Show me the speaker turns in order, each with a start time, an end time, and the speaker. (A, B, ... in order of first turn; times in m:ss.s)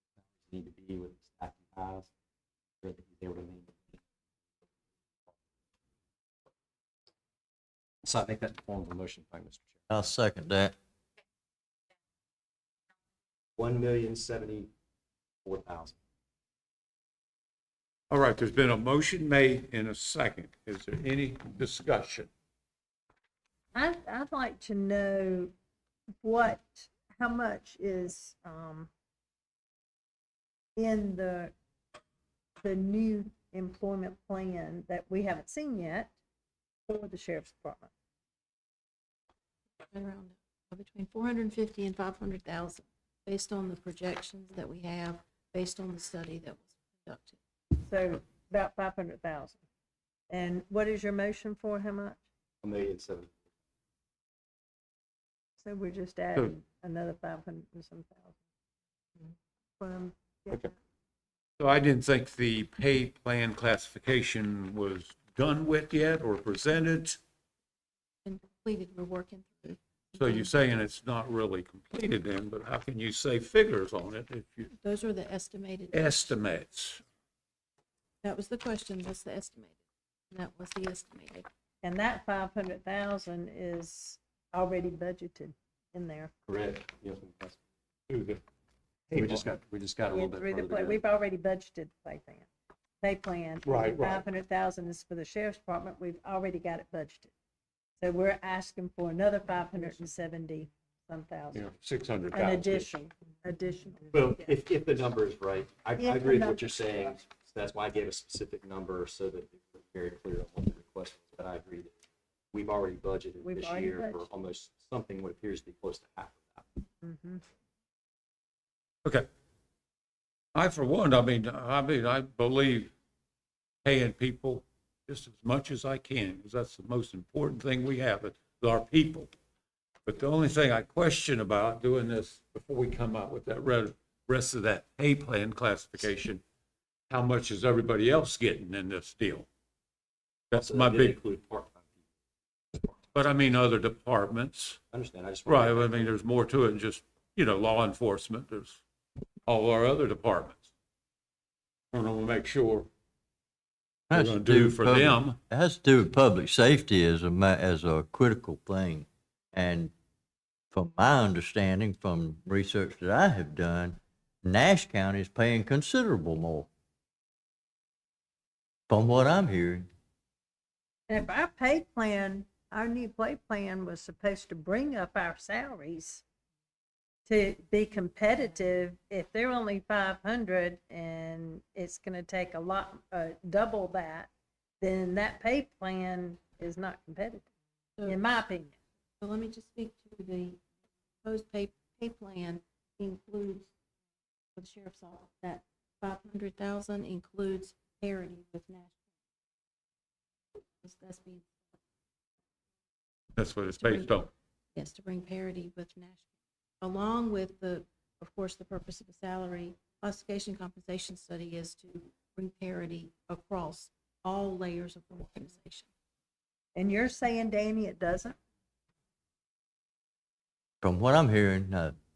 0:00.2-0:02.1 A
0:02.8-0:04.0 A
0:08.0-0:09.8 A
0:09.9-0:10.8 B
0:13.6-0:14.7 A
0:15.4-0:16.0 A
0:18.1-0:22.3 C
0:23.7-0:25.5 D
0:26.2-0:28.9 D
0:30.8-0:31.5 D
0:32.6-0:36.1 D
0:36.9-0:37.9 D
0:39.9-0:47.4 E
0:47.8-0:49.6 D
0:50.3-0:52.2 D
0:52.6-0:53.3 A
0:55.6-0:58.4 D
0:59.8-1:00.7 D
1:01.6-1:07.2 C
1:08.2-1:10.6 E
1:10.2-1:14.7 C
1:14.7-1:16.4 E
1:15.9-1:17.0 C
1:18.2-1:19.8 E
1:20.3-1:21.5 E
1:21.8-1:26.3 D
1:26.5-1:27.6 A
1:28.1-1:28.4 C
1:29.1-1:29.5 C
1:29.2-1:31.0 A
1:30.1-1:32.5 D
1:33.0-1:37.3 D
1:33.6-1:34.2 C
1:38.0-1:41.6 D
1:41.5-1:42.9 C
1:42.3-1:44.5 D
1:44.1-1:51.9 A
1:46.0-1:46.6 D
1:52.5-1:56.7 A
1:53.4-1:54.2 D
1:57.0-1:57.4 D
2:00.6-2:02.9 C
2:03.8-2:09.3 C
2:10.1-2:16.4 C
2:17.1-2:19.5 C
2:20.5-2:21.2 C
2:20.5-2:22.1 A
2:23.1-2:24.8 C
2:24.9-2:26.1 A
2:25.5-2:28.8 C
2:29.5-2:30.7 C
2:31.9-2:32.9 C
2:34.1-2:39.9 B
2:34.1-2:35.4 C
2:40.7-2:46.7 B
2:48.9-2:49.9 B
2:51.1-2:56.2 D
2:57.3-3:04.3 D
3:04.8-3:07.5 D
3:08.0-3:08.8 D
3:09.2-3:10.6 E
3:11.2-3:13.7 E
3:14.6-3:19.0 E
3:20.8-3:21.7 E
3:23.4-3:24.3 C
3:23.8-3:26.2 E
3:26.8-3:35.9 E
3:36.8-3:38.4 D
3:40.8-3:42.0 B